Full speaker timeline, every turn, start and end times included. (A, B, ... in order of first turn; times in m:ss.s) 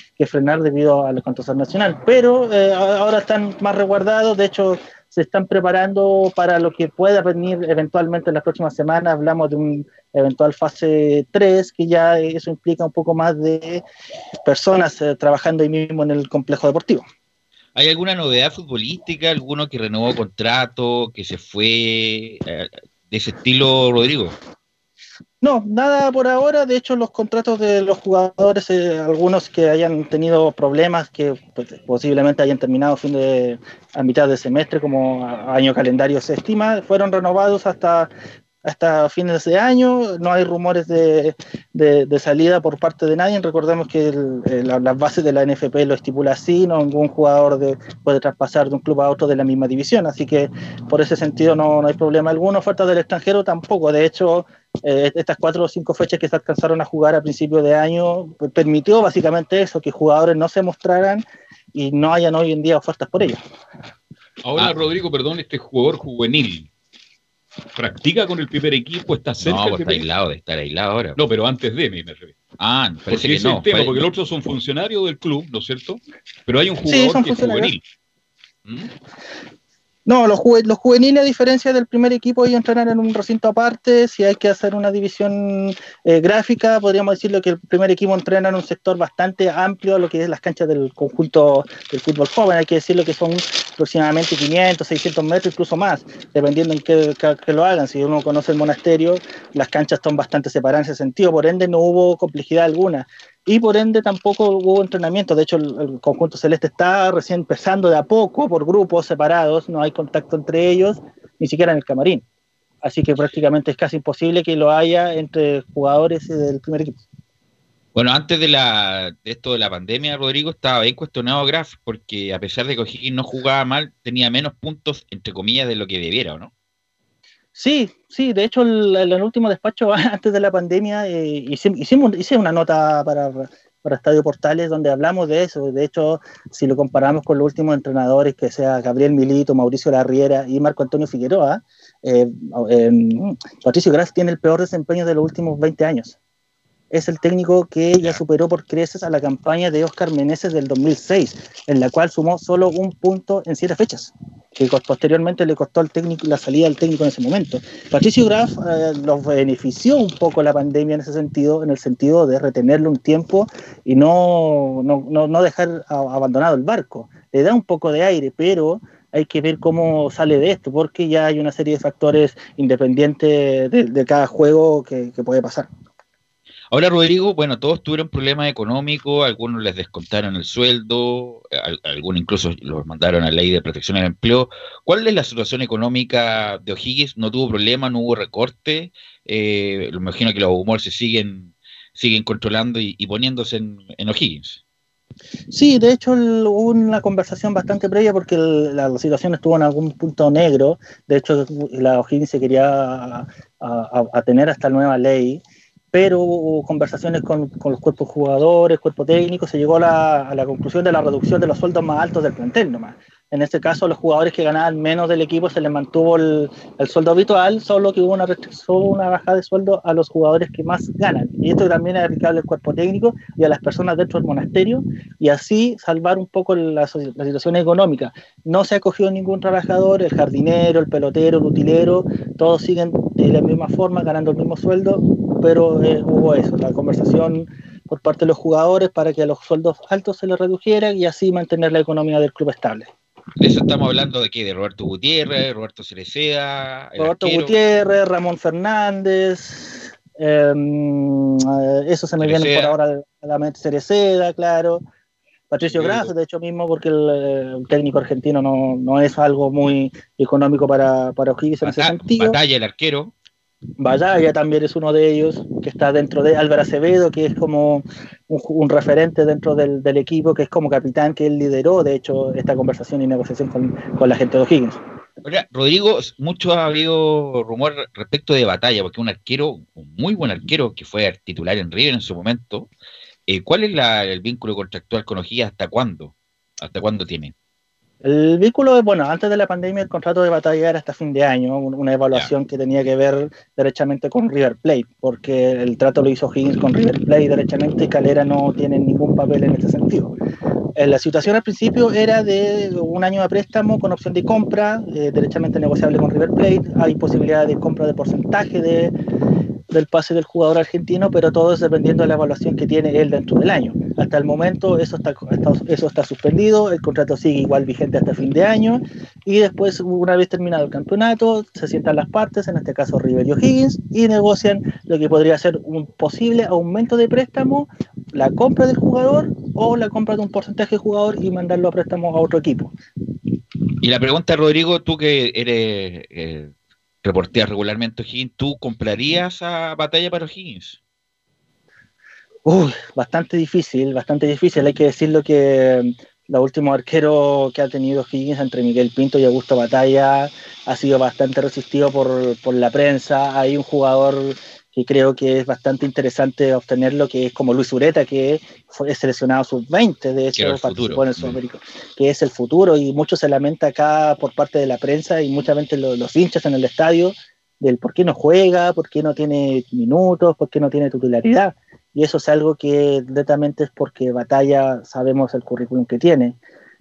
0:00.2-0:13.8 A
0:14.4-0:17.0 A
0:17.8-0:24.3 B
0:25.4-0:38.1 A
0:38.6-1:03.4 A
1:04.4-1:06.7 C
1:07.8-1:10.1 C
1:09.4-1:11.2 B
1:11.2-1:12.4 C
1:12.6-1:14.1 B
1:13.1-1:17.8 C
1:16.8-1:17.7 A
1:20.0-1:52.2 A
1:52.8-1:57.0 A
1:58.0-2:06.5 B
2:07.6-2:26.2 A
2:26.9-2:55.7 A
2:56.7-3:14.6 B
3:15.5-3:25.4 A
3:25.9-4:02.9 A
4:03.4-4:07.5 B
4:07.0-4:14.8 A
4:12.2-4:12.8 B
4:15.5-4:22.4 A
4:15.7-4:16.1 C
4:21.6-4:23.1 B
4:23.8-4:34.8 A
4:35.2-4:42.7 B
4:43.3-4:47.3 B
4:48.0-5:00.1 A
5:00.8-5:09.0 A
5:09.7-5:32.8 A
5:33.8-5:40.8 B
5:42.5-6:16.4 A
6:00.3-6:01.4 B